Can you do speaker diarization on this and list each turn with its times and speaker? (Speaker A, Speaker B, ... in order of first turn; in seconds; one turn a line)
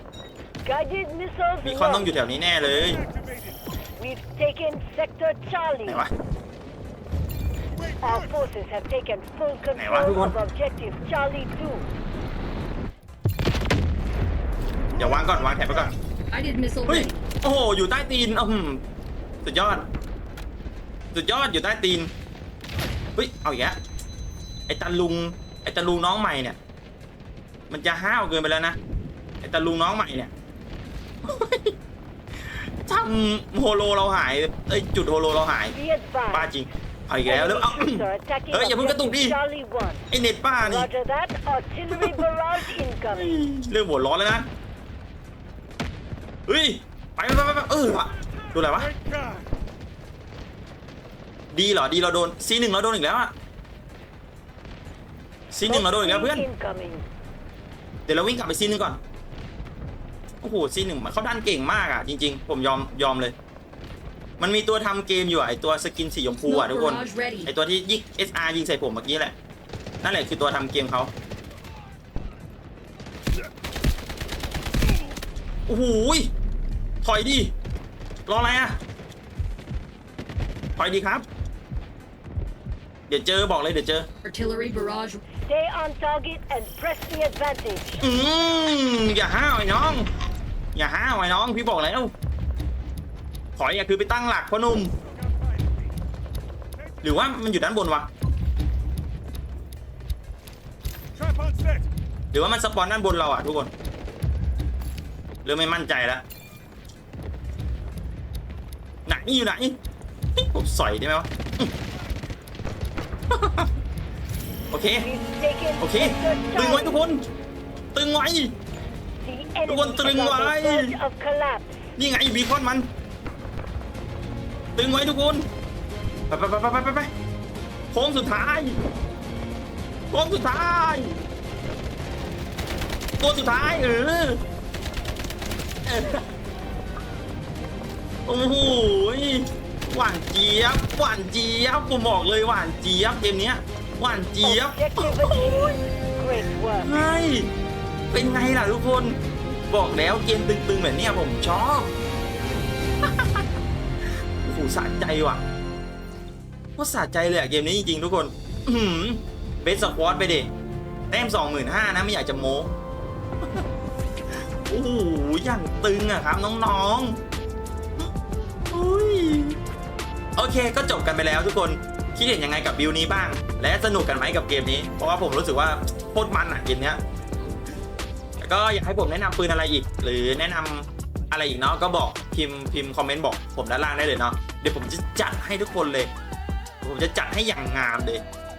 Speaker A: 0.6-2.1
Speaker B: 1.6-3.0
Speaker C: 2.6-3.6
Speaker A: 4.0-6.0
Speaker C: 7.7-8.5
Speaker A: 8.0-11.9
Speaker B: 9.8-10.3
Speaker C: 14.8-15.9
Speaker B: 15.0-15.9
Speaker D: 16.2-17.2
Speaker B: 16.9-18.8
Speaker B: 19.4-19.9
Speaker B: 21.1-22.1
Speaker B: 23.1-23.8
Speaker B: 24.7-26.6
Speaker B: 27.7-28.8
Speaker B: 29.4-30.3
Speaker B: 31.2-31.7
Speaker B: 32.4-35.7
Speaker A: 35.7-36.5
Speaker B: 36.3-39.4
Speaker A: 37.3-40.0
Speaker B: 40.1-40.9
Speaker A: 40.6-43.5
Speaker B: 41.9-42.2
Speaker B: 43.1-44.5
Speaker B: 46.5-48.9
Speaker C: 48.7-49.5
Speaker B: 51.5-53.3
Speaker B: 55.5-56.4
Speaker A: 55.6-57.0
Speaker B: 58.1-59.0
Speaker B: 60.4-63.3
Speaker B: 64.4-69.3
Speaker D: 66.5-67.5
Speaker B: 70.0-71.1
Speaker B: 75.7-76.3
Speaker B: 77.0-77.5
Speaker B: 78.3-78.8
Speaker B: 80.8-81.2
Speaker B: 83.1-84.1
Speaker D: 84.2-85.2
Speaker A: 85.3-88.0
Speaker B: 88.0-90.1
Speaker B: 90.7-92.1
Speaker B: 93.6-94.9
Speaker C: 94.9-96.0
Speaker C: 96.7-97.4
Speaker B: 97.0-98.1
Speaker C: 101.1-101.9
Speaker B: 102.3-103.7
Speaker B: 105.4-106.2
Speaker B: 109.0-109.8
Speaker B: 110.3-111.7
Speaker B: 113.3-113.7
Speaker B: 114.7-115.1
Speaker A: 115.0-117.0
Speaker B: 115.8-117.2
Speaker B: 117.9-118.5
Speaker A: 119.2-121.8
Speaker B: 119.7-121.0
Speaker B: 122.0-122.9
Speaker B: 124.8-125.5
Speaker B: 126.3-127.1
Speaker B: 127.9-128.8
Speaker B: 130.1-131.2
Speaker B: 133.2-134.4
Speaker B: 135.8-136.2
Speaker B: 138.2-145.8
Speaker A: 144.4-147.1
Speaker B: 146.8-147.5
Speaker B: 148.1-151.9
Speaker B: 153.2-153.4
Speaker B: 154.4-155.4
Speaker B: 156.8-160.5
Speaker B: 161.1-162.7
Speaker B: 164.7-167.2
Speaker B: 168.7-169.6
Speaker B: 170.3-177.0
Speaker B: 178.4-186.1
Speaker B: 186.8-188.2